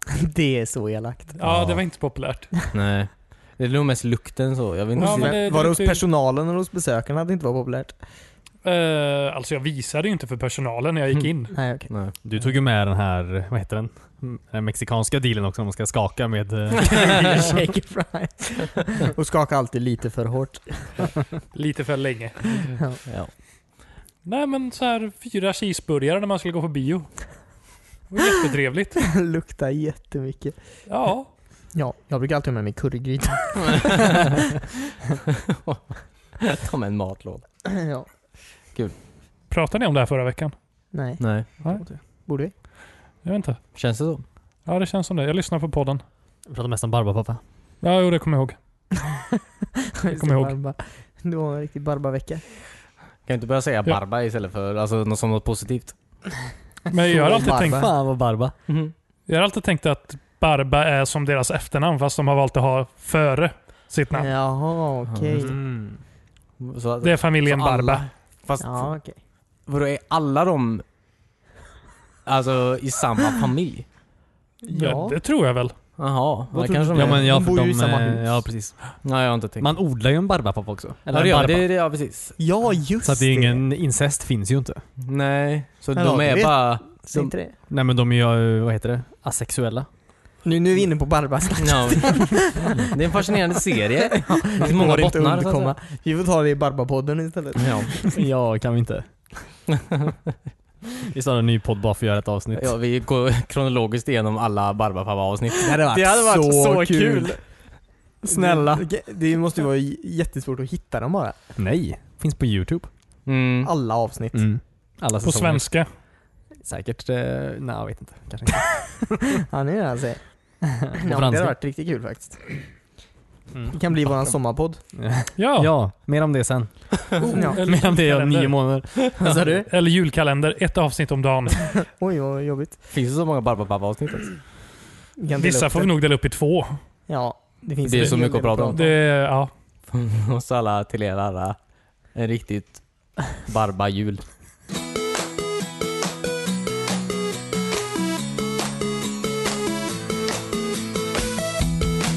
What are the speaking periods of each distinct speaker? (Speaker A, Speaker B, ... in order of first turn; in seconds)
Speaker A: 0.2-1.4, 5.0-8.0, 11.5-11.9, 16.8-21.2, 29.1-30.6, 31.7-34.2, 37.7-38.1, 40.9-42.5, 50.0-52.5, 57.1-57.9, 64.1-65.5, 68.6-69.2, 74.6-75.2, 76.5-78.5, 82.4-83.6, 86.0-87.5, 90.4-92.9, 94.1-98.2, 105.8-107.4, 108.2-111.4, 113.6-114.5, 118.8-122.6, 123.7-124.8, 127.3-127.6, 129.2-129.7, 131.9-132.8, 135.2-135.9, 137.1-138.9
Speaker B: 1.4-2.5, 5.0-6.0, 8.6-11.5, 21.5-22.8, 24.2-27.3, 28.1-29.0, 30.9-31.3, 39.5-40.5, 43.2-43.6, 44.6-46.0, 47.8-48.5, 50.2-50.5, 56.9-57.9, 59.3-64.3, 67.0-68.0, 74.7-75.7, 115.2-115.9, 125.4-125.7, 127.2-128.6, 129.7-131.7, 135.4-136.8, 138.7-139.5
Speaker C: 1.4-1.8, 12.2-17.6, 46.5-47.4, 57.5-58.5, 65.3-66.0, 76.9-79.0, 79.6-81.7, 83.0-84.8, 87.7-89.9, 98.1-99.5, 101.0-102.7, 108.2-108.8, 111.5-112.9, 114.3-115.7, 116.6-119.3, 120.9-121.5, 123.5-123.8, 125.0-129.0
Speaker D: 2.7-5.3, 11.9-12.1, 23.1-23.3, 33.7-34.3, 35.5-37.4, 41.2-41.5, 43.7-44.2, 53.2-56.0, 58.7-58.9, 65.1-65.3, 66.6-68.9, 69.7-70.8, 72.2-73.8, 76.0-77.3, 79.0-79.7, 81.1-82.4, 85.0-87.3, 91.6-95.7, 97.5-97.9, 102.5-107.3, 113.2-113.7, 129.2-129.5, 132.9-134.4, 137.8-138.9, 139.9-141.6, 142.1-144.2